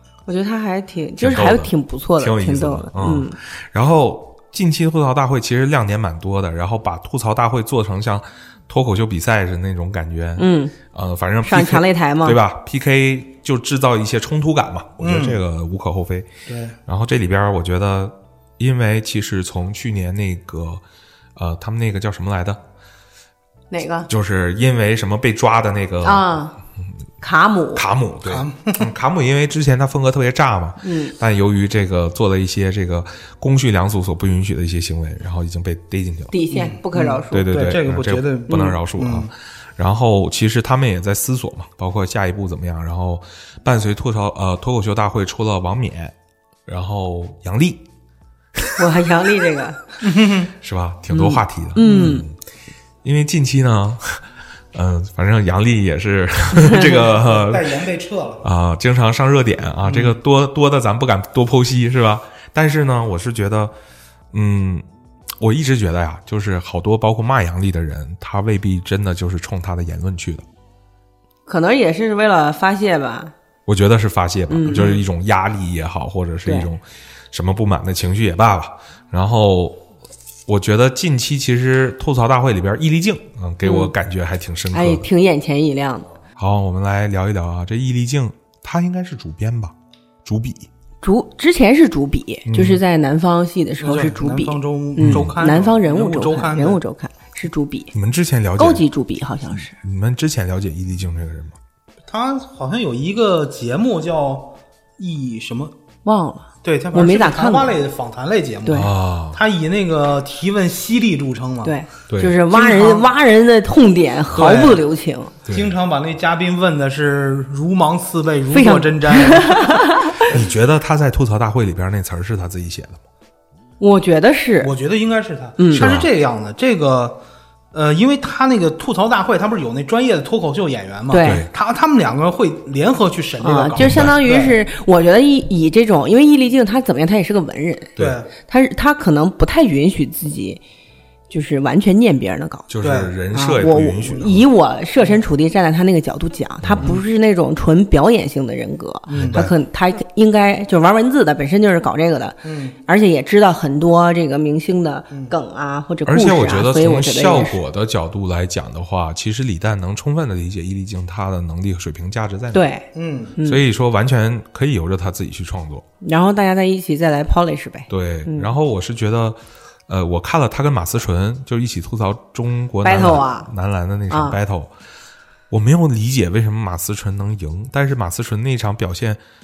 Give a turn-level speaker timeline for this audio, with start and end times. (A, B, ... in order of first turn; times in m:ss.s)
0:00.3-0:03.4 A
0:01.2-0:16.3 B
0:10.4-0:10.7 A
0:11.4-0:12.4 A
0:15.0-0:15.4 C
0:16.5-0:16.8 C
0:16.9-0:20.8 B
0:21.4-0:22.6 B
0:23.7-0:24.1 A
0:24.1-0:26.4 B
0:26.0-0:26.6 A
0:27.2-0:27.8 A
0:27.7-0:36.3 B
0:28.2-0:28.9 C
0:30.8-0:31.2 A
0:36.3-0:37.5 A
0:36.5-0:39.3 C
0:37.3-0:46.2 B
0:38.5-0:38.8 A
0:46.7-0:47.9 B
0:48.8-0:49.8 A
0:50.0-0:50.5 C
0:50.6-0:52.3 B
0:51.1-0:52.2 A
0:51.8-0:52.2 C
0:53.0-0:57.8 B
0:56.6-0:57.0 A
0:56.9-0:58.5 C
0:58.4-1:03.7 B
0:59.8-1:00.2 C
1:04.3-1:04.8 B
1:05.4-1:10.4 B
1:11.5-1:13.3 A
1:13.7-1:19.8 B
1:14.5-1:15.0 A
1:16.4-1:16.7 A
1:20.5-1:25.1 B
1:23.6-1:23.9 A
1:24.7-1:26.1 A
1:26.4-1:29.7 B
1:30.2-1:30.7 B
1:31.0-1:37.9 A
1:32.5-1:32.8 B
1:33.8-1:36.8 C
1:35.0-1:35.4 B
1:37.9-1:38.8 B
1:38.6-1:39.8 A
1:39.6-1:41.6 B
1:42.1-1:45.7 C
1:46.0-1:47.8 A
1:46.6-1:51.8 C
1:48.6-1:48.9 A
1:48.7-1:49.4 B
1:51.6-1:55.3 A
1:52.1-1:52.4 B
1:52.5-1:53.1 C
1:54.3-1:54.8 C
1:55.5-1:55.7 B
1:55.5-1:59.8 C
1:58.5-2:00.2 A
2:00.3-2:03.0 B
2:03.8-2:04.7 A
2:04.6-2:07.2 C
2:05.6-2:05.9 A
2:05.7-2:06.1 B
2:07.7-2:14.6 C
2:11.1-2:11.4 A
2:11.2-2:11.5 B
2:13.4-2:17.9 A
2:13.8-2:14.2 B
2:18.0-2:18.3 C
2:18.5-2:20.6 A
2:21.3-2:22.7 A
2:22.7-2:24.5 B
2:22.8-2:23.1 C
2:23.3-2:37.6 A
2:26.6-2:26.9 B
2:29.1-2:29.4 C
2:29.1-2:29.5 B
2:32.4-2:32.8 C
2:36.1-2:42.6 B
2:42.5-2:43.6 A
2:42.9-2:43.4 C
2:43.4-2:45.8 B
2:46.0-2:48.5 A
2:47.9-2:54.7 B
2:52.8-2:53.5 A
2:54.1-2:54.4 A
2:55.5-2:59.2 B